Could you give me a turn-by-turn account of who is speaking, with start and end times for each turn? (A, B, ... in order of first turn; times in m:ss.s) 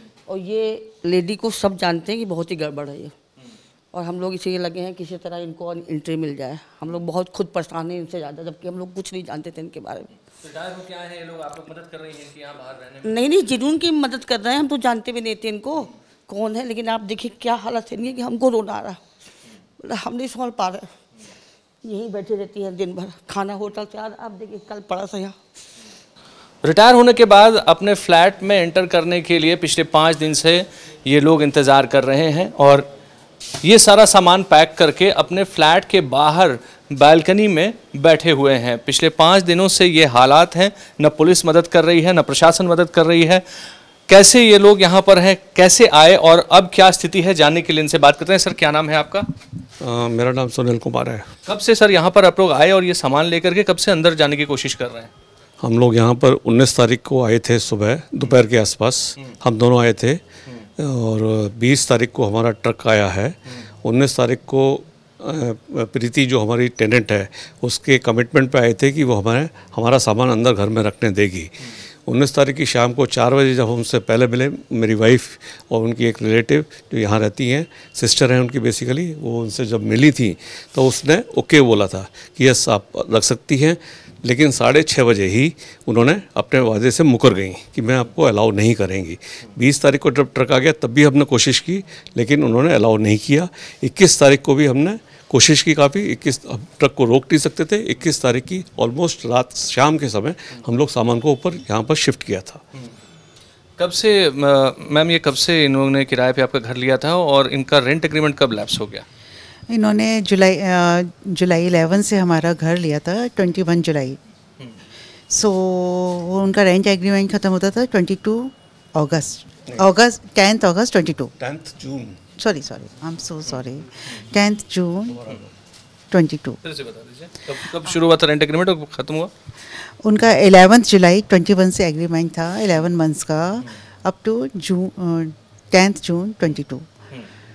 0:00.3-0:03.1 A
0:03.9-0:10.1 A
0:10.4-0:13.2 B
0:13.0-0:19.0 A
0:19.8-0:20.9 A
0:21.8-0:25.4 A
0:26.6-0:32.9 B
0:33.6-0:43.4 B
0:44.1-0:49.3 B
0:49.8-0:51.3 C
0:51.4-0:55.1 B
0:55.6-1:00.2 C
1:00.8-1:42.6 C
1:43.8-1:49.0 B
1:49.7-1:54.2 D
1:55.3-2:01.3 D
2:01.4-2:02.2 C
2:02.4-2:05.2 D
2:06.1-2:06.6 D
2:06.6-2:09.3 B
2:10.0-2:16.8 D